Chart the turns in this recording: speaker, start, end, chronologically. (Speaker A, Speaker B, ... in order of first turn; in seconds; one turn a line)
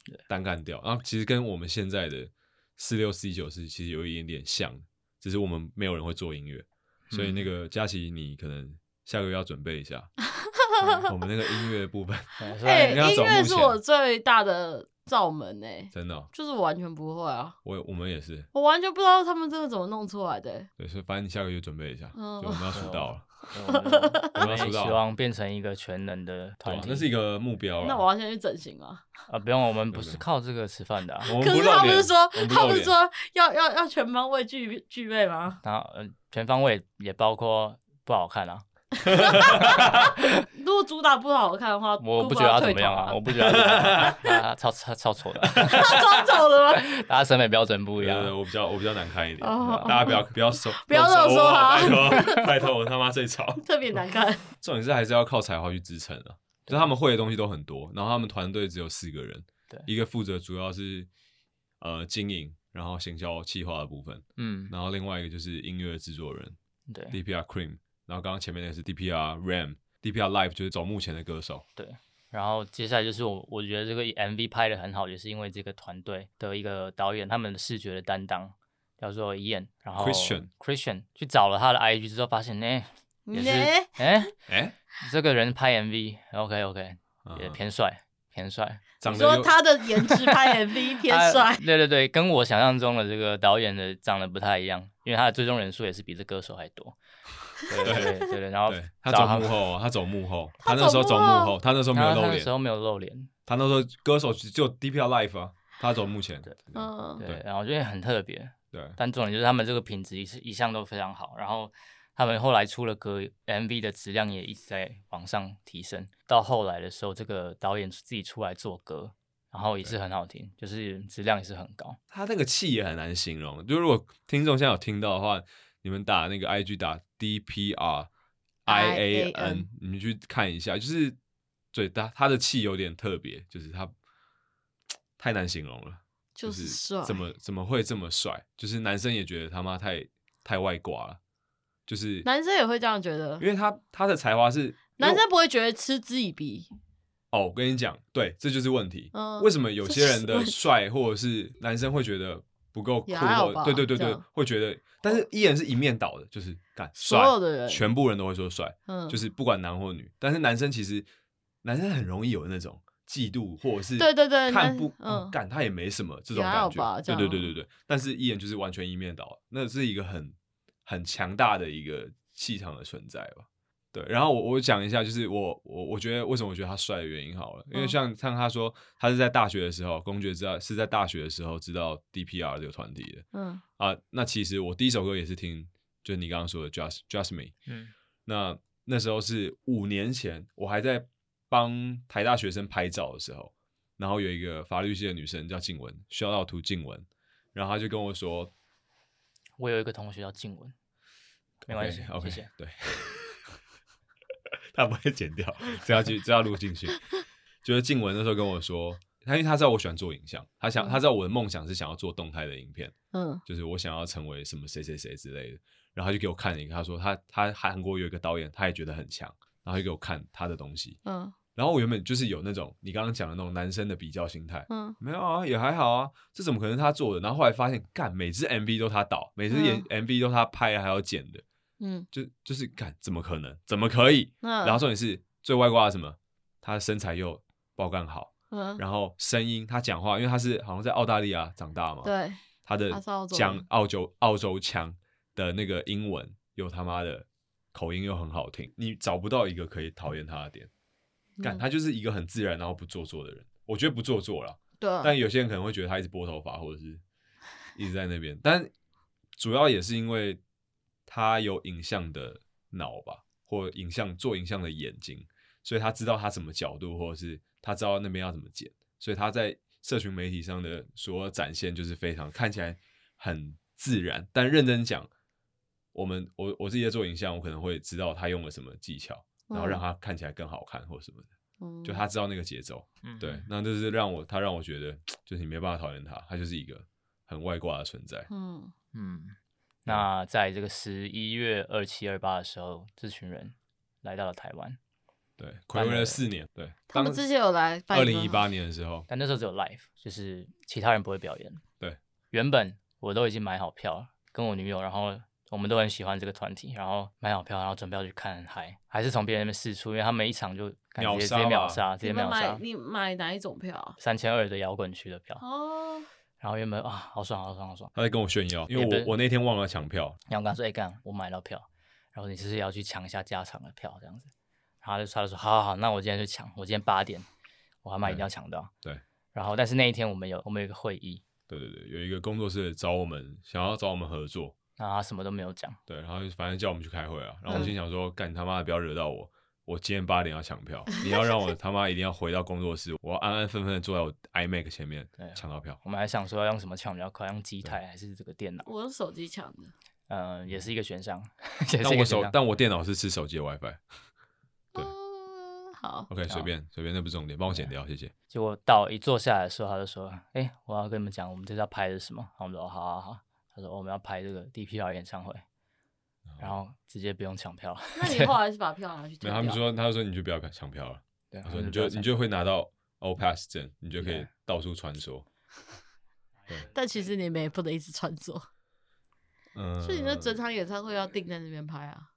Speaker A: 0.3-10.1
Speaker B: 7.1-7.5
Speaker C: 10.4-11.0
Speaker A: 11.0-13.8
Speaker B: 12.4-13.1
Speaker C: 12.6-17.6
Speaker A: 15.9-16.3
Speaker A: 17.6-18.5
Speaker C: 18.5-20.7
Speaker A: 20.8-23.3
Speaker C: 22.1-22.7
Speaker B: 22.7-27.1
Speaker C: 23.6-24.6
Speaker A: 24.4-25.0
Speaker A: 26.6-28.0
Speaker C: 27.8-29.1
Speaker B: 29.3-31.3
Speaker A: 29.9-30.2
Speaker C: 31.3-35.6
Speaker A: 31.3-32.9
Speaker B: 35.6-40.5
Speaker A: 39.0-40.1
Speaker C: 39.0-44.4
Speaker B: 42.0-46.0
Speaker A: 43.4-44.2
Speaker A: 45.5-46.0
Speaker C: 45.6-47.0
Speaker B: 46.7-48.4
Speaker A: 48.0-53.6
Speaker C: 49.4-52.6
Speaker B: 49.6-50.1
Speaker C: 53.6-54.5
Speaker A: 54.6-61.1
Speaker A: 61.8-66.6
Speaker B: 64.4-64.7
Speaker B: 66.9-67.2
Speaker A: 67.1-71.6
Speaker B: 71.8-84.3
Speaker A: 80.0-80.5
Speaker C: 83.3-84.0
Speaker A: 84.5-84.8
Speaker B: 85.0-88.9
Speaker A: 87.2-87.6
Speaker A: 89.0-89.6
Speaker C: 89.1-91.6
Speaker B: 90.0-97.0
Speaker B: 97.6-99.6
Speaker C: 97.8-98.2
Speaker A: 97.8-98.1
Speaker A: 98.7-102.5
Speaker C: 100.6-101.6
Speaker B: 101.9-103.3
Speaker A: 103.5-107.4
Speaker C: 106.7-107.2
Speaker B: 107.2-122.0
Speaker A: 108.7-109.0
Speaker A: 122.1-128.1
Speaker A: 128.7-131.2
Speaker C: 128.7-129.7
Speaker A: 131.7-133.9
Speaker A: 135.2-141.2
Speaker C: 136.4-137.2
Speaker A: 141.9-142.3
Speaker C: 142.2-143.4
Speaker A: 143.4-145.2
Speaker C: 145.0-146.7
Speaker A: 147.3-161.1
Speaker C: 149.1-150.6
Speaker C: 153.1-154.2
Speaker C: 157.0-157.8
Speaker C: 158.9-159.2
Speaker A: 161.6-183.2
Speaker C: 164.0-165.4
Speaker C: 166.3-167.5
Speaker C: 183.3-183.6
Speaker A: 183.8-187.5
Speaker B: 187.7-187.9
Speaker A: 188.3-198.5
Speaker B: 199.6-200.7
Speaker A: 201.7-203.5
Speaker B: 201.7-202.5
Speaker A: 204.7-207.1
Speaker A: 207.6-212.9
Speaker C: 213.1-213.4
Speaker A: 213.5-221.0
Speaker C: 221.1-221.4
Speaker A: 221.6-231.4
Speaker C: 224.7-225.0
Speaker C: 229.5-229.9
Speaker C: 231.8-232.1
Speaker A: 232.1-242.1
Speaker C: 234.4-234.8
Speaker C: 238.5-238.8
Speaker C: 242.0-242.4
Speaker A: 242.7-250.7
Speaker C: 242.9-243.6
Speaker C: 251.4-251.6
Speaker A: 251.4-257.0
Speaker C: 254.8-255.1
Speaker A: 257.8-258.7
Speaker A: 259.4-260.4
Speaker A: 261.1-275.1
Speaker A: 275.9-281.3
Speaker C: 279.5-279.8
Speaker C: 281.6-282.0
Speaker A: 281.8-288.3
Speaker B: 283.0-283.5
Speaker C: 288.3-288.7
Speaker B: 288.9-294.8
Speaker A: 295.4-297.2
Speaker B: 295.8-296.2
Speaker C: 296.9-298.4
Speaker A: 297.9-299.1
Speaker B: 299.1-301.6
Speaker B: 302.3-312.6
Speaker A: 311.0-311.8
Speaker C: 312.0-314.0
Speaker B: 314.0-315.4
Speaker C: 315.4-316.1
Speaker B: 316.4-317.9
Speaker A: 317.9-320.2
Speaker B: 318.7-319.1
Speaker B: 320.3-324.3
Speaker B: 324.8-327.3
Speaker B: 327.8-328.7
Speaker B: 329.3-331.2
Speaker A: 331.5-334.6
Speaker B: 334.8-335.8
Speaker A: 335.9-345.8
Speaker B: 345.2-348.7
Speaker C: 348.6-349.7
Speaker B: 350.1-352.4
Speaker A: 351.8-353.8
Speaker C: 354.7-356.1
Speaker A: 356.1-358.1
Speaker B: 358.3-365.4
Speaker A: 366.3-366.6
Speaker B: 366.4-368.4
Speaker C: 368.0-369.6
Speaker A: 369.2-375.3
Speaker B: 371.3-372.1
Speaker B: 374.0-374.3
Speaker C: 376.7-378.5
Speaker A: 379.6-380.4
Speaker C: 379.8-382.1